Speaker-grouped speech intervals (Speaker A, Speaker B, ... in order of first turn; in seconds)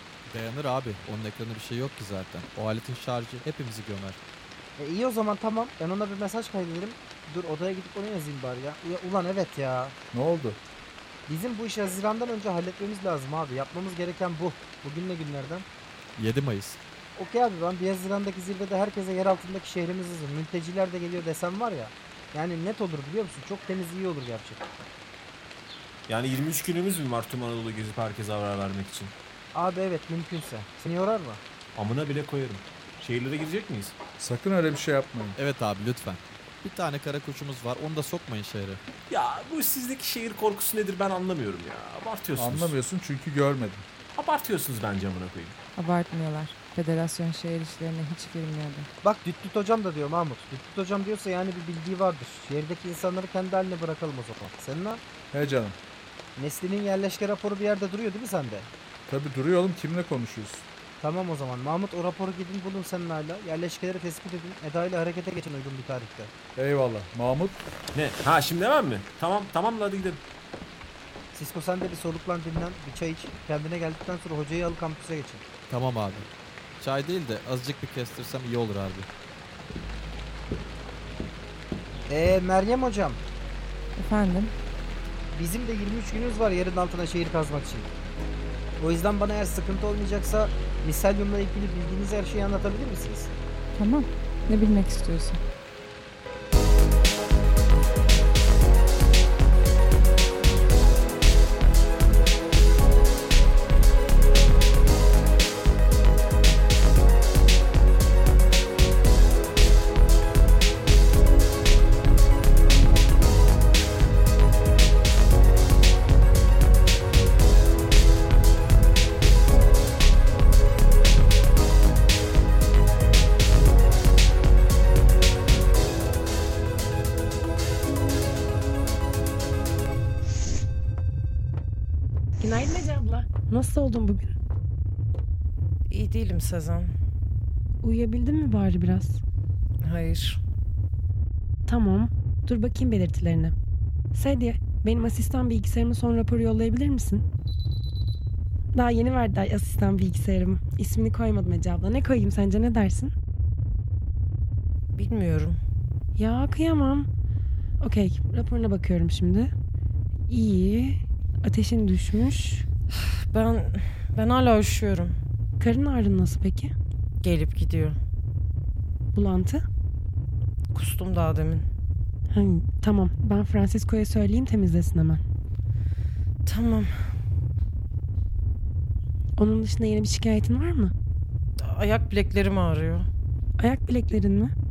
Speaker A: 0.3-4.2, 16.2-16.8, 35.4-38.8, 75.7-76.3, 76.8-79.1
Speaker B: 4.8-9.9, 11.3-15.7, 17.1-24.9, 29.5-31.4, 49.0-55.0, 56.4-58.7, 61.0-66.3, 71.3-75.4, 82.1-83.2, 85.3-87.9, 88.8-93.3
Speaker C: 10.1-10.6, 34.2-35.4, 42.4-43.9, 55.3-55.8, 59.1-60.6, 66.5-67.6
Speaker D: 26.1-29.2, 31.7-34.0, 39.1-42.8, 44.1-45.6, 67.9-70.2
Speaker E: 45.7-48.9, 84.0-84.5, 93.7-95.4
Speaker F: 132.4-134.3, 137.8-139.2, 141.7-143.5, 144.1-147.2, 148.7-153.1, 156.2-157.1, 157.8-159.5, 160.3-162.6, 165.6-166.7, 169.1-169.6, 172.3-175.2, 179.4-180.9, 183.6-184.5
Speaker G: 135.9-136.9, 139.8-140.4, 154.9-155.6, 162.9-165.2, 167.2-168.0, 170.7-171.7, 176.4-176.9, 181.6-183.1